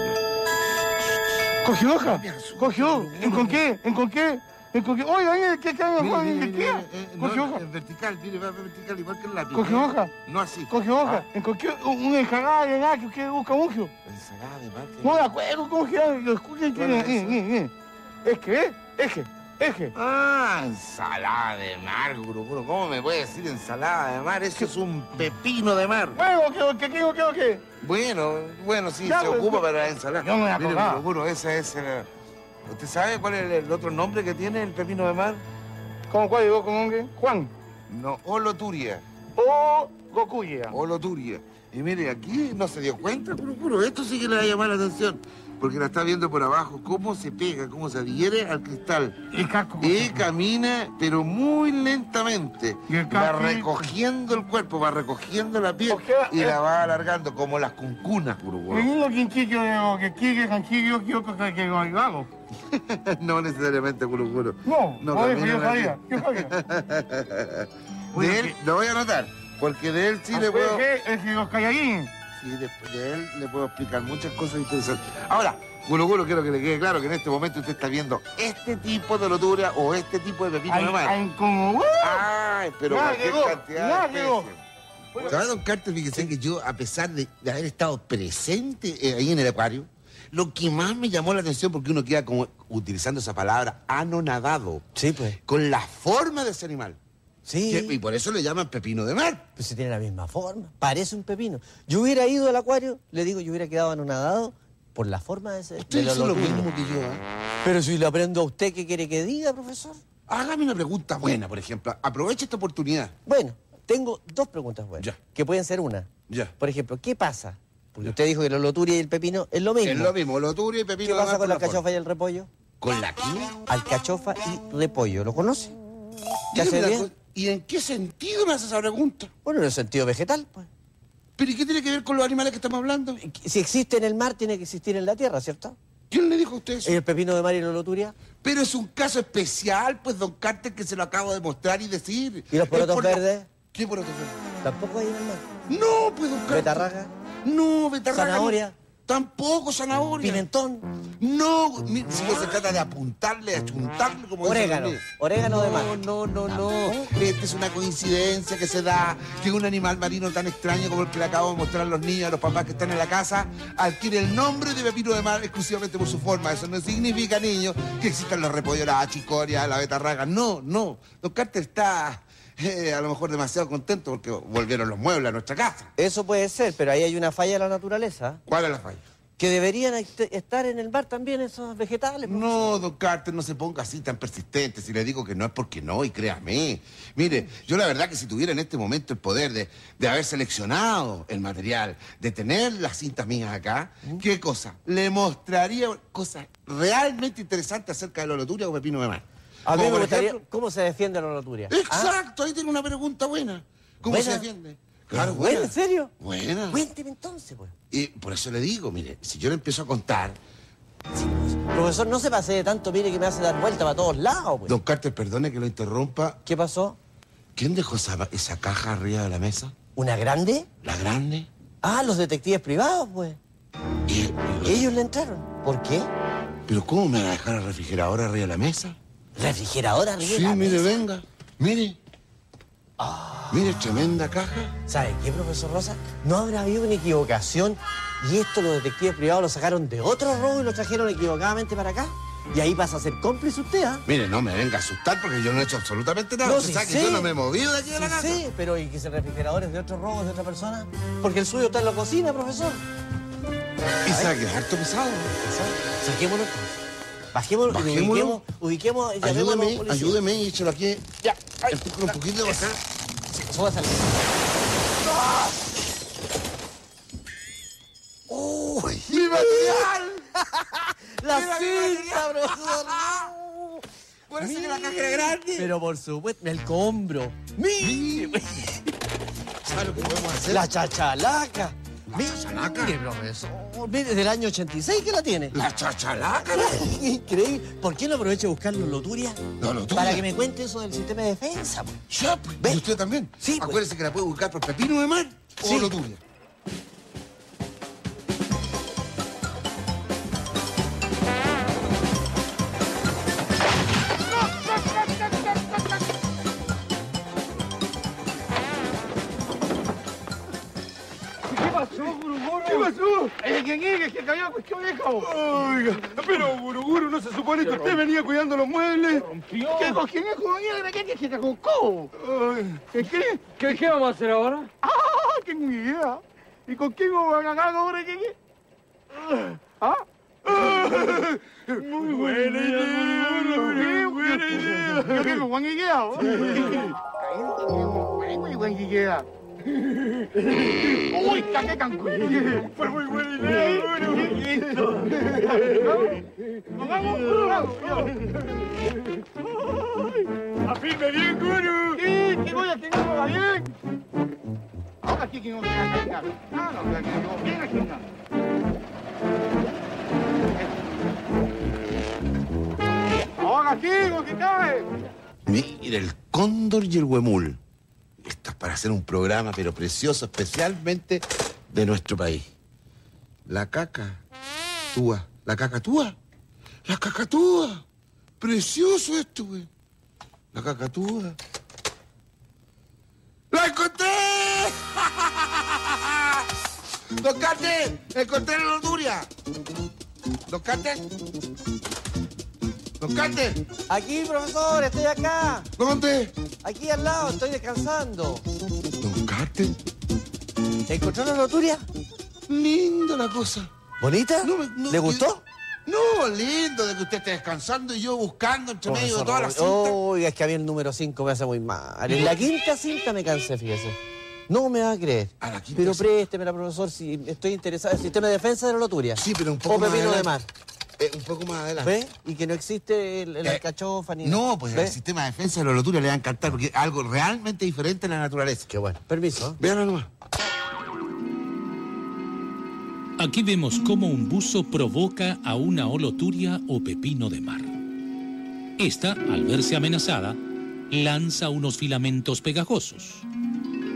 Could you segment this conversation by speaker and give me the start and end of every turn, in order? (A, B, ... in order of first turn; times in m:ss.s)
0:01.6-0:07.6 A
0:02.0-0:03.6 B
0:06.0-0:11.2 B
0:09.5-0:10.1 A
0:10.7-0:13.9 A
0:14.0-0:15.3 B
0:15.0-0:17.7 A
0:16.7-0:17.4 B
0:18.2-0:19.9 A
0:19.9-0:26.2 B
0:26.1-0:27.6 A
0:27.8-0:32.1 B
0:29.0-0:29.6 A
0:30.2-0:31.0 A
0:32.6-0:35.4 B
0:36.1-0:37.5 A
0:37.9-0:39.0 B
0:39.4-0:40.8 A
0:40.7-0:58.9 B
0:49.3-0:50.2 A
0:52.9-0:53.7 A
0:55.9-0:56.6 A
0:58.7-1:02.3 A
1:02.6-1:10.8 B
1:04.6-1:06.5 A
1:08.1-1:08.5 A
1:10.3-1:12.1 A
1:12.4-1:21.2 B
1:20.7-1:22.2 A
1:22.0-1:24.6 B
1:22.9-1:24.5 A
1:25.2-1:34.8 B
1:35.0-1:35.4 C
1:35.4-1:37.0 B
1:37.4-1:38.0 C
1:37.7-1:39.4 B
1:39.6-1:46.7 C
1:45.8-1:47.2 B
1:47.6-1:50.0 C
1:50.3-1:53.1 B
1:53.2-2:00.1 C
1:56.3-1:56.5 B
1:59.8-2:01.8 B
2:01.0-2:02.5 C
2:02.8-2:03.6 B
2:03.6-2:05.8 C
2:06.5-2:09.3 B
2:06.5-2:07.1 C
2:09.4-2:10.7 C
2:11.4-2:13.2 B
2:13.2-2:15.8 C
2:16.1-2:17.0 B
2:16.8-2:18.1 C
2:18.4-2:24.4 B
2:22.5-2:23.5 C
2:24.6-2:25.4 C
2:25.7-2:26.9 B
2:26.5-2:27.1 C
2:27.4-2:30.4 B
2:28.1-2:28.7 C
2:30.2-2:30.9 C
2:31.2-2:55.9 B
2:34.4-2:37.1 C
2:56.0-2:58.4 C
2:58.4-2:59.0 B
2:59.4-3:02.7 C
3:02.2-3:20.4 B
3:19.6-3:22.1 C
3:21.7-3:26.8 B
3:24.1-3:24.5 C
3:25.1-3:26.1 C
3:26.7-3:27.7 C
3:27.9-3:30.4 B
3:31.1-3:34.7 C
3:34.7-3:36.4 B
3:36.4-3:37.0 C
3:37.5-3:39.7 B
3:39.9-3:40.7 C
3:40.8-3:41.5 B
3:41.8-3:43.4 C
3:44.0-3:44.9 B
3:44.6-3:46.1 C
3:46.7-3:49.0 B
3:49.4-3:51.0 C
3:50.2-3:52.0 B
3:53.0-3:54.0 C
3:53.5-3:54.7 B
3:54.9-4:04.0 C
4:04.0-4:08.4 B
4:06.4-4:07.3 C
4:07.9-4:12.8 C
4:14.0-4:15.3 B
4:14.1-4:14.3 C
4:15.4-4:16.8 C
4:17.3-4:20.2 C
4:17.7-4:18.4 B
4:19.2-4:22.8 B
4:23.3-4:24.4 C
4:25.0-4:25.5 B
4:28.3-4:33.8 C
4:29.1-4:30.3 B
4:31.2-4:33.3 B
4:34.3-4:35.7 B
4:34.4-4:38.5 C
4:37.8-4:38.8 B
4:39.6-4:40.7 B
4:40.4-4:45.6 C
4:42.1-4:43.0 B
4:45.5-4:46.9 B
4:46.4-4:49.4 C
4:49.6-4:50.3 B
4:49.9-4:52.0 C
4:52.1-4:56.2 B
4:53.4-4:53.8 C
4:55.6-4:55.9 C
5:04.3-5:06.0 A
5:11.5-5:15.4 A
5:11.7-5:12.9 D
5:15.2-5:18.1 D
5:17.6-5:22.2 A
5:19.1-5:19.9 D
5:22.2-5:22.8 D
5:22.8-5:23.8 A
5:23.6-5:24.6 D
5:24.8-5:28.3 A
5:29.1-5:39.2 A
5:31.8-5:35.4 D
5:36.2-5:36.9 D
5:40.0-5:41.4 D
5:41.0-5:42.7 A
5:42.2-5:48.9 D
5:43.4-5:48.2 A
5:49.5-5:50.3 A
5:50.6-5:52.0 D
5:51.9-5:53.7 A
5:55.0-5:58.1 A
6:00.6-6:00.9 A
6:03.0-6:05.1 A
6:05.4-6:07.6 B
6:08.2-6:12.5 B
6:13.4-6:14.2 B
6:14.9-6:16.2 B
6:16.8-6:17.8 B
6:18.4-6:19.7 B
6:20.5-6:21.4 B
6:23.5-6:26.5 B
6:27.1-6:29.3 B
6:30.5-6:31.3 B
6:33.0-6:33.6 B
6:33.9-6:35.7 C
6:35.8-6:36.3 B
6:36.6-6:38.4 C
6:39.0-6:39.8 B
6:40.9-6:41.8 C
6:42.5-6:43.7 B
6:44.0-6:45.4 C
6:44.4-6:45.3 B
6:45.8-6:50.0 B
6:48.8-6:54.0 C
6:52.1-6:52.5 B
6:54.5-7:00.5 C
6:55.4-6:56.1 B
6:59.2-7:00.3 B
7:01.0-7:02.0 B
7:01.8-7:05.0 C
7:04.2-7:08.7 B
7:08.7-7:09.6 C
7:09.6-7:10.1 B
7:13.2-7:17.7 E
7:18.8-7:20.4 E
7:20.9-7:23.2 E